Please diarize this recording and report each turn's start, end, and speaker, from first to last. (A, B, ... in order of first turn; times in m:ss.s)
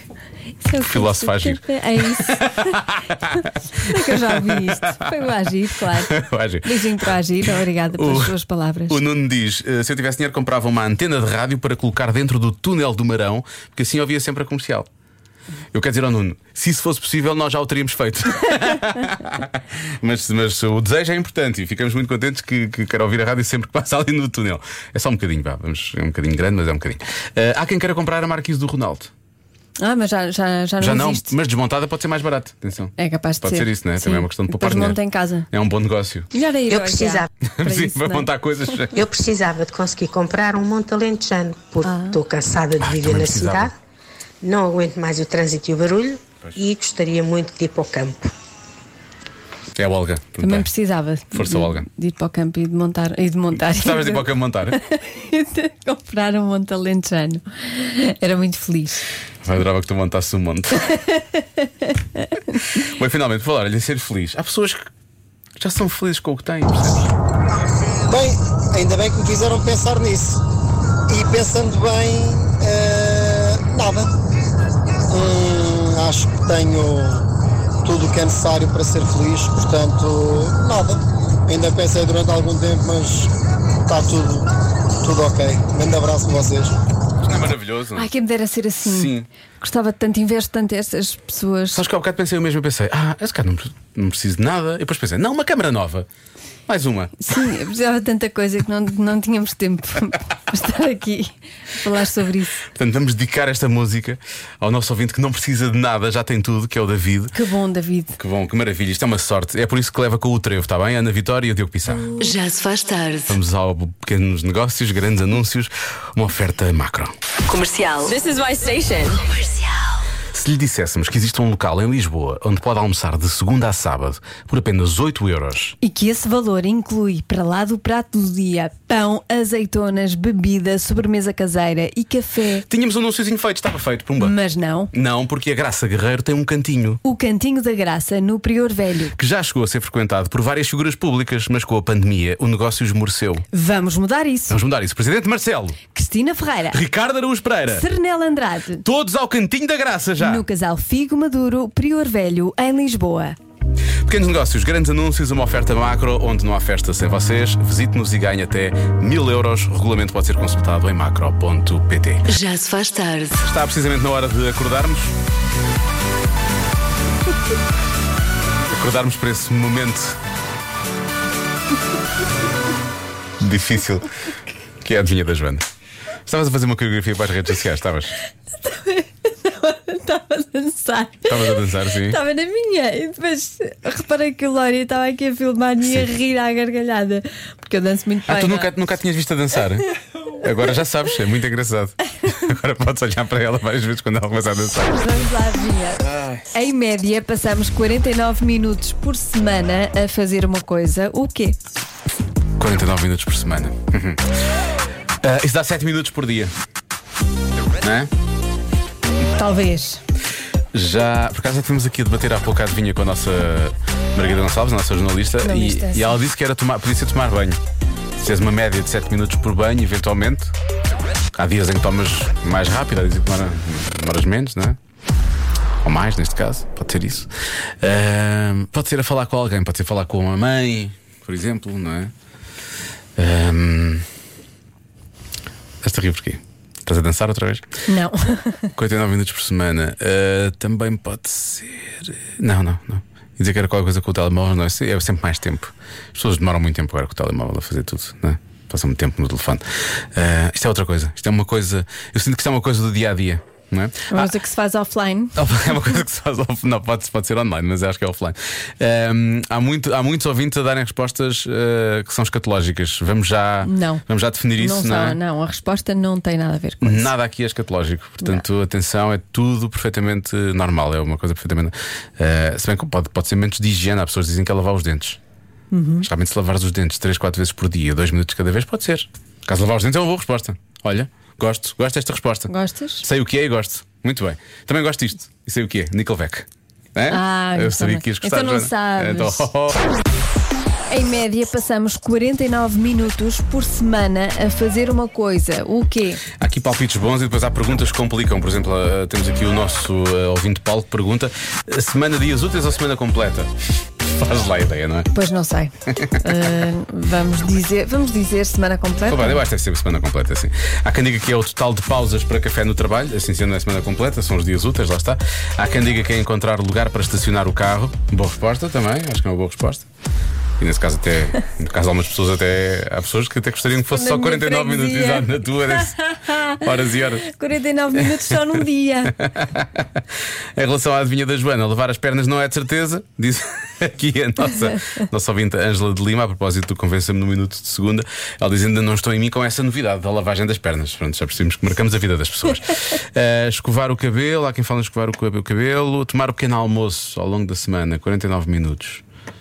0:00.6-0:02.8 A
0:00.8-0:05.2 B
0:03.8-0:09.0 A
0:06.0-0:08.4 B
0:08.9-0:14.9 B
0:15.7-0:29.1 B
0:29.8-0:31.3 A
0:30.8-0:35.0 B
0:33.0-0:35.5 A
0:35.5-0:36.3 B
0:36.3-0:38.3 A
0:36.9-0:37.3 C
0:37.5-0:39.1 B
0:39.0-0:43.7 C
0:41.8-0:42.2 A
0:42.8-0:43.7 B
0:44.4-0:48.2 C
0:49.8-0:50.7 B
0:50.4-0:59.0 A
0:51.3-0:51.9 B
0:53.6-0:54.8 B
0:59.4-1:00.9 B
1:00.9-1:01.7 A
1:02.7-1:04.9 B
1:05.6-1:07.1 B
1:08.1-1:10.4 D
1:11.1-1:14.1 D
1:15.1-1:17.3 D
1:17.8-1:23.3 D
1:23.9-1:24.5 D
1:25.0-1:26.7 D
1:27.2-1:28.1 B
1:28.0-1:31.8 A
1:28.8-1:29.3 B
1:31.7-1:36.1 B
1:36.7-1:37.2 B
1:37.2-1:42.6 A
1:42.7-1:47.3 B
1:47.3-1:48.2 A
1:48.2-1:52.1 B
1:52.2-1:53.4 E
1:53.3-1:57.1 B
1:57.5-1:58.1 E
2:00.3-2:05.8 B
2:05.8-2:12.7 A
2:12.7-2:14.4 B
2:14.2-2:14.9 A
2:14.9-2:17.0 B
2:17.0-2:19.2 A
2:19.1-2:23.4 B
2:23.5-2:24.6 A
2:24.5-2:25.8 B
2:25.9-2:26.8 A
2:26.7-2:27.9 B
2:27.7-2:28.8 A
2:28.8-2:30.5 B
2:30.2-2:33.4 A
2:34.0-2:42.3 B
2:42.3-2:43.4 E
2:43.4-2:45.1 B
2:48.7-2:50.2 B
2:53.4-2:54.1 B
2:54.8-2:55.6 B
2:56.3-2:58.2 B
2:58.6-3:08.7 A
3:01.3-3:02.2 B
3:05.8-3:06.1 B
3:08.3-3:15.0 B
3:14.9-3:21.6 A
3:16.0-3:16.4 B
3:22.6-3:24.2 B
3:25.2-3:26.5 B
3:27.8-3:28.1 B
3:29.4-3:30.0 A
3:30.7-3:37.6 B
3:35.4-3:36.2 A
3:38.2-3:40.5 B
3:41.4-3:44.8 B
3:45.8-3:47.3 B
3:47.8-3:52.1 B
3:53.2-3:54.1 B
3:55.8-3:57.7 B
3:57.9-3:58.7 A
3:58.8-4:14.3 B
4:14.1-4:15.4 A
4:15.4-4:25.2 B
4:23.6-4:24.0 A
4:24.6-4:27.1 A
4:26.8-4:35.2 B
4:35.7-4:36.1 A
4:36.0-4:42.5 B
4:42.5-4:43.0 A
4:43.0-4:49.8 B
4:47.1-4:49.5 A
4:50.9-4:56.2 A
4:56.4-5:05.1 B
5:05.1-5:09.4 A
5:05.9-5:06.2 B
5:09.1-5:19.8 B
5:20.6-5:27.3 B
5:23.9-5:26.5 A
5:27.2-5:29.2 A
5:29.2-5:29.9 B
5:30.6-5:49.0 B